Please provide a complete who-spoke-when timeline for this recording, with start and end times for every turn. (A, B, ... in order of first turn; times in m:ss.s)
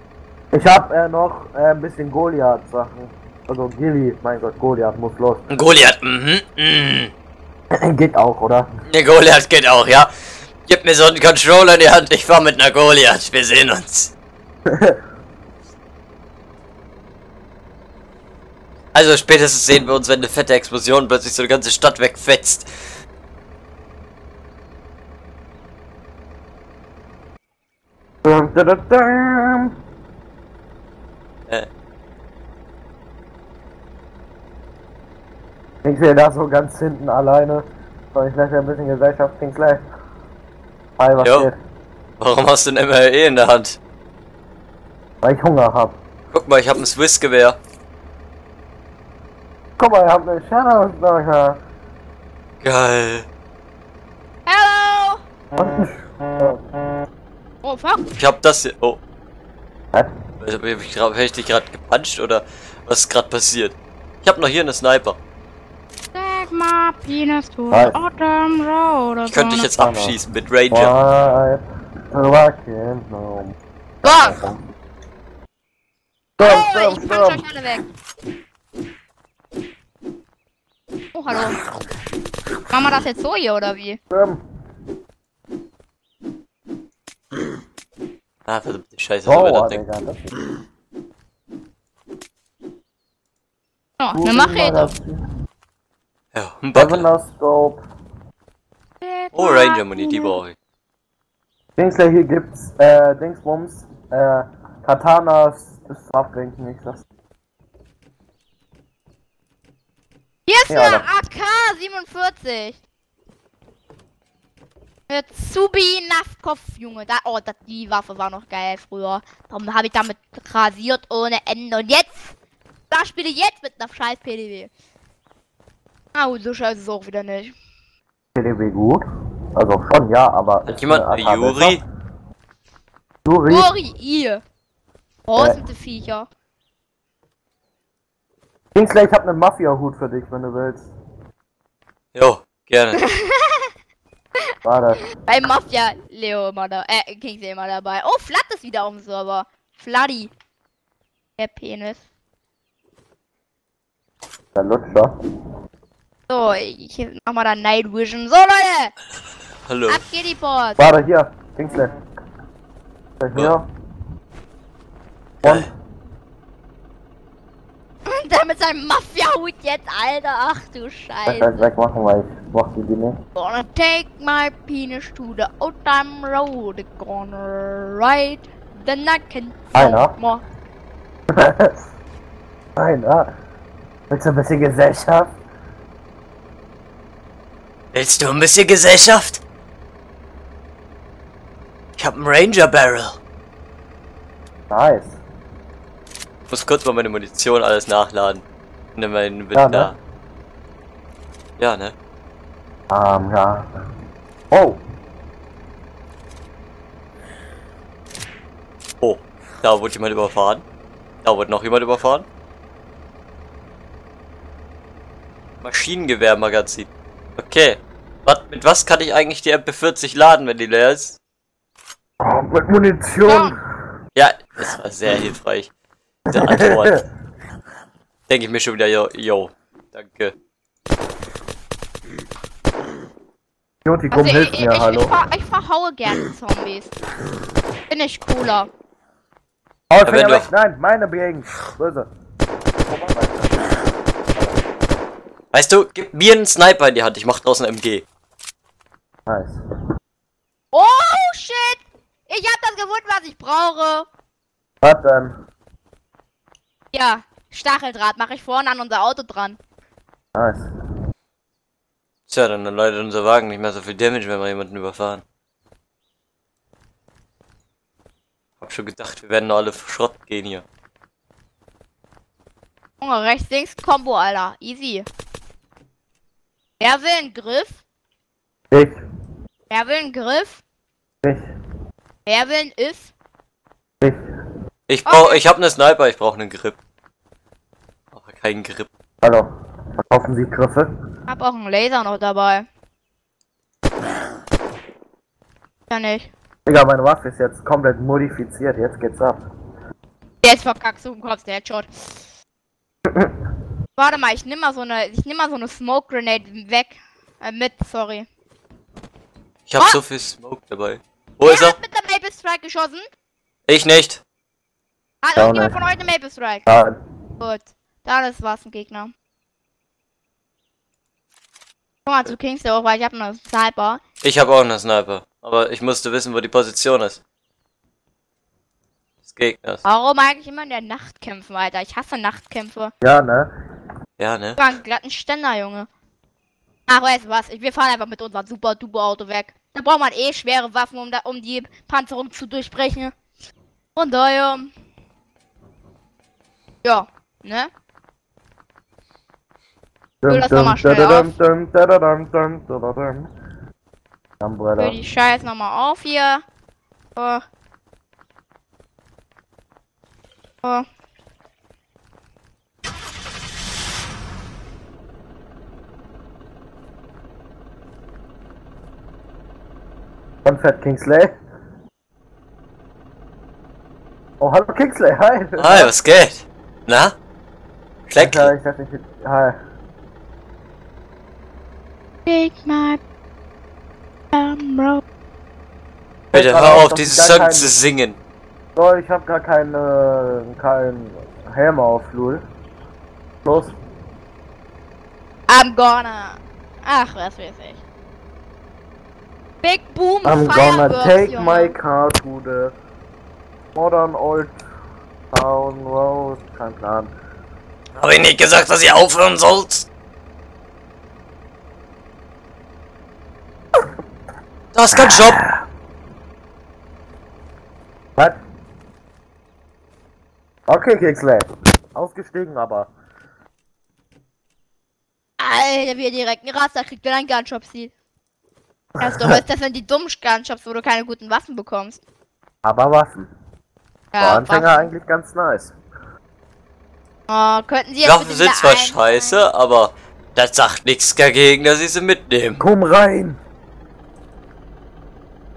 0:00.5-0:05.5 A
0:05.5-0:07.1 B
0:07.8-0:08.7 A
0:08.9-0:10.1 B
0:10.6-0:14.1 B
0:14.7-0:15.0 A
0:18.9-0:22.7 B
0:28.2-0:29.8 A
0:35.8-0:39.8 A
0:41.0-0:41.6 A
0:41.2-0:41.5 B
0:42.2-0:43.8 B
0:45.2-0:46.0 A
0:46.3-0:47.6 B
0:49.8-0:51.6 A
0:52.6-0:53.3 B
0:54.5-0:55.2 C
0:55.6-0:56.6 A
0:57.6-0:58.1 C
0:58.2-0:59.0 B
1:00.4-1:05.2 B
1:06.1-1:09.7 C
1:07.7-1:08.0 A
1:09.3-1:10.9 B
1:09.8-1:10.2 A
1:10.7-1:14.6 A
1:14.0-1:14.4 C
1:16.4-1:17.4 A
1:16.4-1:17.8 C
1:21.1-1:21.6 C
1:22.7-1:24.0 C
1:24.1-1:24.4 A
1:28.5-1:29.8 B
1:29.3-1:30.2 A
1:34.0-1:34.9 C
1:34.1-1:35.2 A
1:36.3-1:37.1 B
1:36.8-1:37.8 A
1:39.0-1:40.4 C
1:39.3-1:40.6 B
1:41.8-1:47.0 A
1:50.5-1:52.8 C
1:50.7-1:51.0 A
1:55.1-2:02.3 C
2:02.9-2:04.7 C
2:06.1-2:07.6 C
2:08.4-2:09.0 A
2:09.6-2:11.8 A
2:10.6-2:11.8 B
2:13.2-2:13.7 A
2:13.5-2:14.4 C
2:15.3-2:16.3 C
2:18.8-2:20.9 A
2:22.1-2:23.0 B
2:23.0-2:23.7 C
2:24.6-2:25.0 A
2:25.1-2:30.3 C
2:31.4-2:32.0 C
2:34.6-2:35.1 A
2:36.3-2:39.0 C
2:39.7-2:40.0 B
2:39.9-2:40.9 C
2:40.8-2:41.9 A
2:43.2-2:43.7 A
2:45.4-2:45.7 B
2:45.4-2:45.7 A
2:48.1-2:51.6 C
2:51.3-2:53.2 A
2:53.4-3:00.4 C
2:59.8-3:00.1 A
3:01.3-3:01.8 A
3:02.8-3:03.3 A
3:04.1-3:05.4 A
3:07.9-3:09.4 B
3:12.0-3:13.2 B
3:14.7-3:15.2 A
3:16.5-3:18.4 B
3:19.0-3:20.0 B
3:19.5-3:19.9 A
3:21.6-3:22.0 B
3:22.9-3:23.7 A
3:24.5-3:24.8 A
3:29.0-3:30.6 B
3:31.2-3:32.3 B
3:35.6-3:41.2 B
3:42.2-3:43.6 A
3:43.3-3:43.6 C
3:44.2-3:45.7 B
3:46.3-3:47.0 B
3:46.3-3:47.0 A
3:48.3-3:50.3 B
3:53.8-3:55.1 A
3:54.1-3:56.9 C
3:57.9-3:58.7 C
3:59.9-4:02.1 A
4:00.0-4:00.5 B
4:02.9-4:04.6 A
4:05.5-4:08.0 B
4:09.3-4:09.6 A
4:10.7-4:14.1 C
4:14.8-4:15.3 A
4:16.9-4:19.6 C
4:20.4-4:20.7 A
4:22.3-4:25.2 B
4:28.6-4:30.6 B
4:33.0-4:35.1 C
4:36.8-4:37.8 C
4:38.7-4:39.0 A
4:39.7-4:40.6 C
4:42.3-4:43.1 C
4:44.9-4:46.8 B
4:45.1-4:45.4 C
4:48.1-4:48.9 B
4:49.2-4:49.5 A
4:50.1-4:50.9 A
4:51.3-4:52.7 C
4:55.9-4:56.3 C
4:56.7-4:59.4 A
5:00.4-5:02.2 C
5:03.1-5:03.4 A
5:04.0-5:08.3 C
5:09.7-5:11.8 B
5:11.4-5:13.1 C
5:13.7-5:14.2 B
5:15.2-5:16.6 C
5:15.4-5:15.8 A
5:16.7-5:17.0 A
5:17.4-5:19.1 C
5:22.1-5:24.0 C
5:24.2-5:27.2 B
5:29.3-5:29.8 B
5:29.8-5:32.9 C
5:33.0-5:33.5 A
5:34.2-5:34.6 B
5:34.6-5:35.9 C
5:36.9-5:43.1 C
5:44.0-5:44.7 C
5:46.8-5:47.7 C
5:50.2-5:53.3 A
5:50.3-5:51.3 C
5:54.4-5:55.0 A
5:54.8-5:56.4 C
5:57.2-5:57.4 C
6:10.4-6:11.3 A
6:14.4-6:15.9 A
6:15.6-6:17.2 B
6:18.1-6:18.5 B
6:18.2-6:19.6 A
6:22.3-6:23.0 C
6:24.3-6:25.0 C
6:26.3-6:27.7 A
6:26.3-6:28.2 B
6:28.8-6:32.4 A
6:33.4-6:33.8 A
6:35.5-6:37.8 C
6:39.6-6:41.8 C
6:40.2-6:42.7 A
6:43.8-6:44.6 A
6:45.3-6:47.1 A
6:48.0-6:49.9 B
6:54.7-6:55.4 B
6:54.9-6:55.6 A
7:00.7-7:02.9 A
7:05.4-7:07.9 C
7:09.0-7:09.4 A
7:09.0-7:12.0 C
7:12.6-7:13.3 A
7:14.1-7:14.9 C
7:14.2-7:15.7 A
7:17.3-7:19.4 C
7:18.0-7:22.6 B
7:22.6-7:23.4 A